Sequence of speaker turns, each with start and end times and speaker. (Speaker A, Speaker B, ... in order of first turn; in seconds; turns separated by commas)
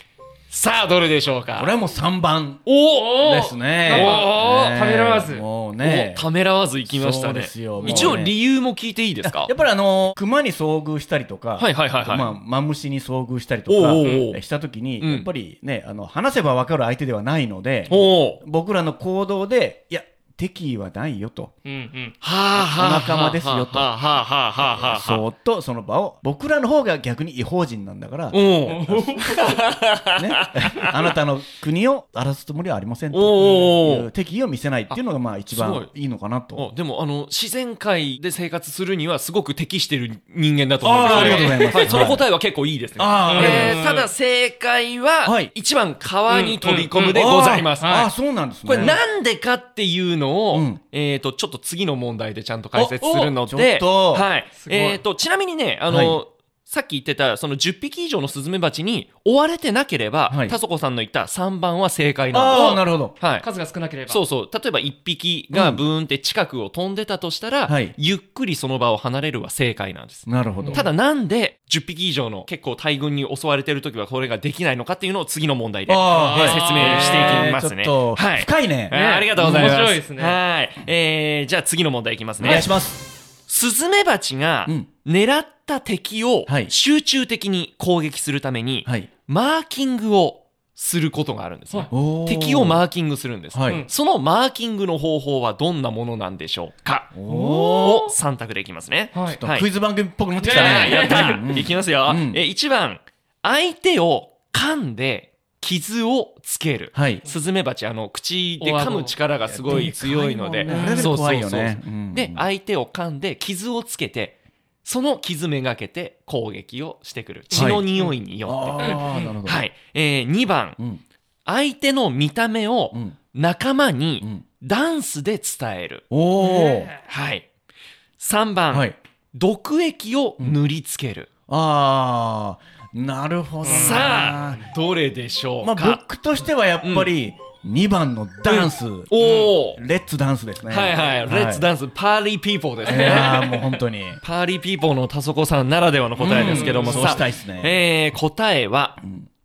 Speaker A: 0.5-1.7, Speaker B: 1.6-2.6, Speaker A: 2.6-3.1, Speaker C: 2.9-5.4, Speaker B: 3.1-6.3, Speaker A: 3.9-4.7, Speaker A: 5.8-9.5, Speaker B: 6.8-8.3, Speaker C: 7.8-8.2, Speaker B: 9.2-21.5, Speaker A: 11.6-12.3, Speaker A: 13.7-14.4, Speaker C: 14.0-14.3, Speaker A: 15.0-15.3, Speaker A: 17.9-18.4, Speaker C: 21.6-22.1, Speaker A: 22.2-25.2, Speaker B: 22.5-23.9, Speaker B: 24.6-36.7, Speaker A: 28.3-30.9, Speaker C: 28.7-29.6, Speaker A: 33.1-34.1, Speaker C: 33.4-33.8, Speaker A: 35.5-35.9, Speaker A: 36.5-48.0, Speaker B: 40.8-42.2, Speaker C: 41.0-42.0, Speaker B: 43.0-43.8, Speaker C: 43.2-44.1, Speaker B: 45.2-45.5, Speaker C: 46.3-47.2, Speaker B: 46.9-49.0, Speaker C: 47.8-48.1, Speaker A: 48.6-63.5, Speaker B: 50.5-50.8, Speaker B: 52.7-54.2, Speaker C: 54.6-55.0, Speaker B: 55.9-56.2, Speaker B: 60.3-60.5, Speaker B: 62.3-63.1, Speaker C: 63.4-64.2, Speaker A: 64.1-82.7, Speaker B: 65.5-65.8, Speaker B: 67.7-67.9, Speaker B: 70.2-70.8, Speaker C: 70.6-70.9, Speaker B: 75.9-79.8, Speaker C: 76.1-77.5, Speaker C: 78.9-80.4, Speaker B: 82.4-83.0, Speaker A: 83.5-99.7, Speaker B: 86.5-86.7, Speaker B: 91.9-92.8, Speaker B: 93.5-93.8, Speaker B: 97.1-98.1, Speaker C: 97.3-98.1, Speaker C: 99.1-99.4, Speaker B: 99.2-102.4, Speaker C: 100.4-101.5, Speaker A: 100.4-120.8, Speaker B: 106.9-107.2, Speaker C: 108.6-109.2, Speaker B: 109.5-112.4, Speaker C: 110.7-111.1, Speaker C: 117.5-118.2, Speaker B: 117.5-119.6, Speaker C: 118.8-119.3, Speaker A: 121.5-126.0, Speaker B: 122.9-123.2, Speaker B: 126.1-126.9, Speaker C: 126.4-127.0, Speaker A: 127.1-127.5, Speaker A: 128.2-131.3, Speaker B: 128.7-128.9, Speaker B: 131.5-134.7, Speaker C: 133.6-134.6, Speaker A: 133.6-136.0, Speaker B: 135.6-141.7, Speaker A: 136.8-137.1, Speaker A: 138.4-139.8, Speaker A: 140.7-143.4, Speaker C: 142.8-143.8, Speaker B: 142.8-144.2, Speaker A: 144.2-149.0, Speaker B: 146.2-147.8, Speaker C: 146.2-147.3, Speaker B: 149.0-149.3